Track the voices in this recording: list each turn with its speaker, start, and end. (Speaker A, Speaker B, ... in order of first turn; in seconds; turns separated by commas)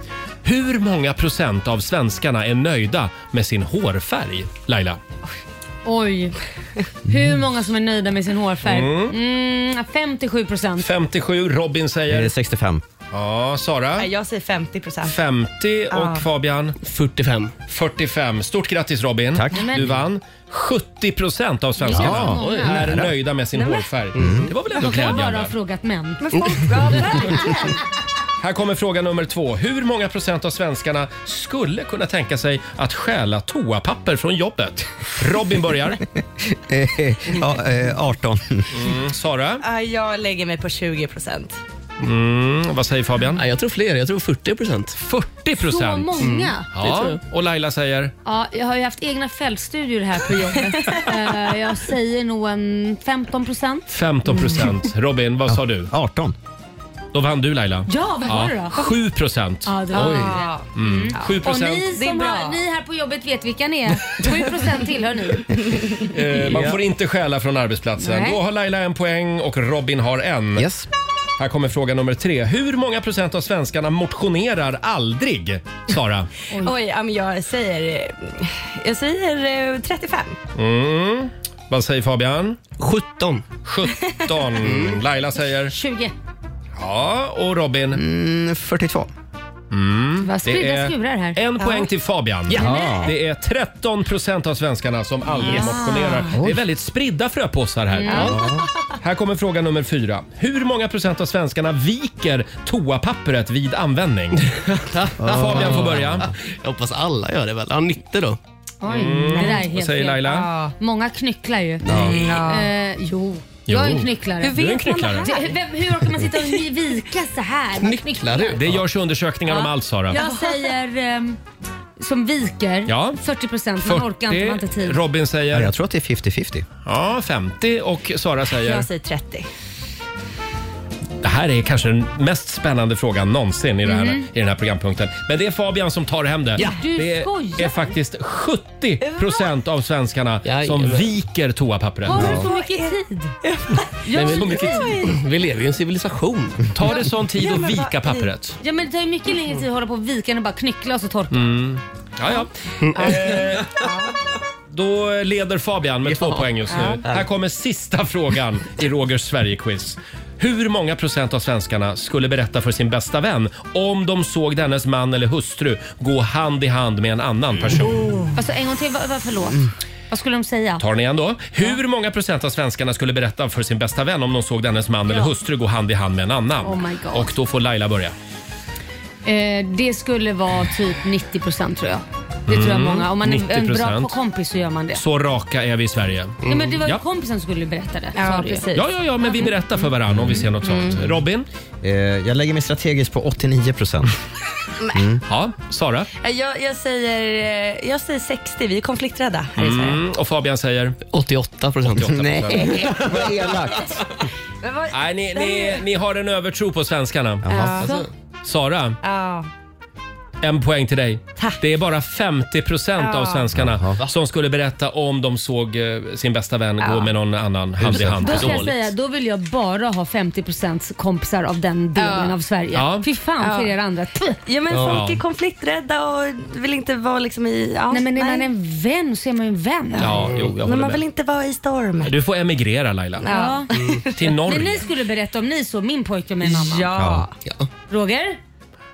Speaker A: 0.4-5.0, Speaker B: 5.8-6.3, Speaker B: 7.1-10.9, Speaker A: 8.6-9.2, Speaker A: 10.8-12.3, Speaker C: 12.1-12.8, Speaker A: 13.1-14.1, Speaker D: 13.9-15.2, Speaker A: 15.0-16.8, Speaker D: 15.9-16.3, Speaker E: 16.8-17.5, Speaker A: 17.7-25.5, Speaker C: 19.3-19.6, Speaker B: 19.5-19.9, Speaker B: 21.8-22.8, Speaker C: 21.9-23.1, Speaker E: 22.3-23.0, Speaker D: 23.5-23.9, Speaker C: 24.1-24.5, Speaker B: 24.8-27.5, Speaker D: 26.2-27.7, Speaker A: 28.4-36.0, Speaker C: 36.5-38.7, Speaker A: 38.7-39.6, Speaker D: 39.6-41.6, Speaker A: 42.0-43.4, Speaker E: 43.3-45.0, Speaker A: 45.0-48.1, Speaker B: 45.6-46.7, Speaker E: 46.2-47.2, Speaker B: 48.2-53.9, Speaker A: 53.9-55.9, Speaker C: 55.5-56.4, Speaker A: 57.1-61.9, Speaker B: 57.9-59.0, Speaker B: 59.6-65.8, Speaker D: 59.9-61.4, Speaker D: 61.9-62.6, Speaker A: 66.0-70.7, Speaker E: 66.5-66.8, Speaker B: 68.0-68.4, Speaker C: 70.5-70.9, Speaker A: 71.4-76.3, Speaker D: 76.6-80.4, Speaker A: 80.5-82.6, Speaker E: 82.8-83.5, Speaker A: 83.6-85.7, Speaker D: 83.9-84.2, Speaker E: 84.6-85.0, Speaker B: 85.7-86.1, Speaker A: 86.8-88.0, Speaker C: 87.9-89.1, Speaker A: 89.7-98.4, Speaker B: 90.2-91.7, Speaker C: 92.5-93.1, Speaker B: 92.6-93.1, Speaker B: 95.4-96.3, Speaker C: 96.3-96.6, Speaker B: 98.0-98.4, Speaker D: 98.0-98.6, Speaker C: 98.3-98.6, Speaker A: 99.0-104.5, Speaker E: 104.6-106.1, Speaker C: 105.2-106.3, Speaker A: 105.3-106.3, Speaker E: 106.6-108.4, Speaker B: 108.8-118.6, Speaker A: 108.8-110.5, Speaker D: 109.2-109.6, Speaker D: 110.2-110.7, Speaker E: 111.9-112.2, Speaker D: 111.9-112.7, Speaker A: 113.7-115.3, Speaker D: 114.4-115.6, Speaker E: 117.8-118.8, Speaker A: 118.5-120.2, Speaker B: 119.5-121.4, Speaker D: 120.1-120.7, Speaker B: 122.0-125.0, Speaker A: 122.9-123.2, Speaker A: 123.8-125.7, Speaker C: 125.5-126.7, Speaker A: 126.8-128.9, Speaker D: 128.4-129.5, Speaker A: 131.2-142.4, Speaker B: 133.8-134.2, Speaker B: 136.8-137.9, Speaker D: 139.0-139.4, Speaker E: 140.4-141.1, Speaker B: 142.1-143.3, Speaker D: 142.1-145.2, Speaker B: 144.0-145.1, Speaker E: 144.1-146.7, Speaker A: 144.2-144.9, Speaker A: 146.7-148.6, Speaker D: 146.8-148.3, Speaker B: 148.6-151.4, Speaker A: 151.3-153.8, Speaker D: 153.1-154.1, Speaker A: 154.7-168.0, Speaker E: 156.1-156.5, Speaker D: 156.7-157.0, Speaker B: 168.3-170.8, Speaker A: 170.8-178.1, Speaker B: 176.6-177.3, Speaker B: 179.2-185.0, Speaker A: 182.5-184.1, Speaker A: 184.9-187.0, Speaker B: 186.4-188.7, Speaker D: 188.1-189.5, Speaker A: 188.7-191.5, Speaker D: 190.6-191.0, Speaker C: 191.8-194.1, Speaker D: 194.8-195.1, Speaker C: 194.9-195.2, Speaker A: 195.3-196.1, Speaker D: 196.2-200.0, Speaker A: 199.6-201.0, Speaker E: 201.1-202.3, Speaker A: 201.9-202.9, Speaker C: 202.1-203.9, Speaker D: 204.6-205.8, Speaker A: 204.9-207.7, Speaker C: 207.4-207.8, Speaker D: 207.4-208.1, Speaker E: 207.8-208.1, Speaker A: 208.4-209.0, Speaker D: 209.0-209.5, Speaker A: 210.4-218.8, Speaker D: 211.3-211.6, Speaker D: 213.0-213.5, Speaker C: 213.5-214.0, Speaker D: 216.8-217.1, Speaker C: 217.8-218.4, Speaker B: 218.0-224.4, Speaker D: 221.9-222.4, Speaker A: 222.7-223.0, Speaker D: 223.4-223.7, Speaker D: 224.4-228.5, Speaker E: 224.7-225.0, Speaker A: 224.8-225.2, Speaker B: 227.9-230.2, Speaker D: 229.9-232.2, Speaker A: 230.0-231.0, Speaker A: 232.0-233.3, Speaker D: 233.2-234.2, Speaker B: 233.3-233.7, Speaker A: 234.1-234.9, Speaker B: 234.4-236.9, Speaker D: 236.4-237.3, Speaker C: 236.9-237.3, Speaker B: 237.9-238.4